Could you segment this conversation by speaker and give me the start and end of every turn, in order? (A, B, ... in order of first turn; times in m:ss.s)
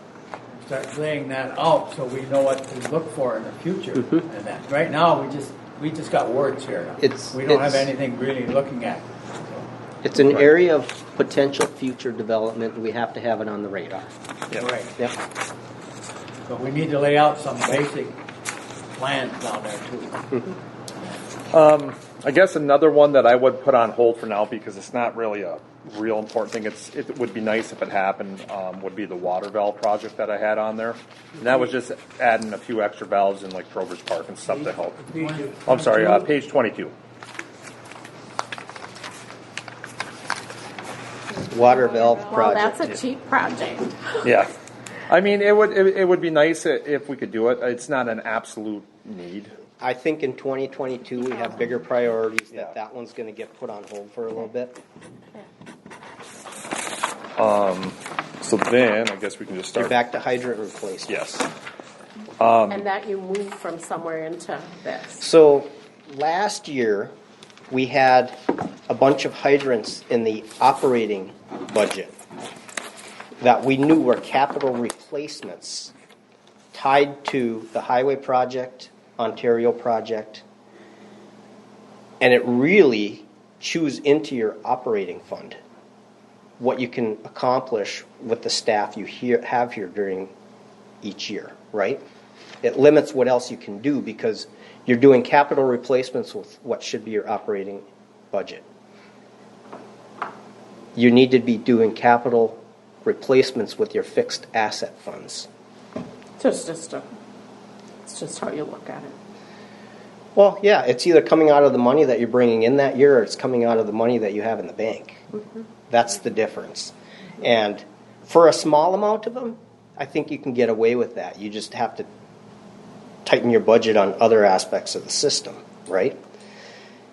0:00.5-0:09.7 A
0:07.0-0:07.9 B
0:10.0-0:14.1 B
0:14.6-0:14.9 A
0:16.5-0:18.2 A
0:19.0-0:20.4 A
0:21.5-0:36.9 C
0:34.5-0:36.3 A
0:41.4-0:42.9 B
0:42.3-0:44.2 D
0:44.2-0:44.5 C
0:45.1-0:49.6 C
0:49.8-0:54.8 B
0:57.4-1:00.0 C
0:59.8-1:01.2 B
1:01.1-1:01.5 C
1:02.4-1:02.9 C
1:02.7-1:05.2 D
1:05.2-1:07.1 B
1:07.7-1:08.4 B
1:08.9-1:12.1 B
1:13.4-1:15.9 B
1:16.7-1:20.4 B
1:22.2-1:25.6 B
1:26.6-1:30.3 B
1:31.0-1:32.0 B
1:32.6-1:38.6 B
1:41.0-1:45.5 B
1:46.4-1:47.1 D
1:48.0-1:49.1 D
1:50.3-1:55.2 B
1:55.9-2:02.1 B
2:03.2-2:06.2 B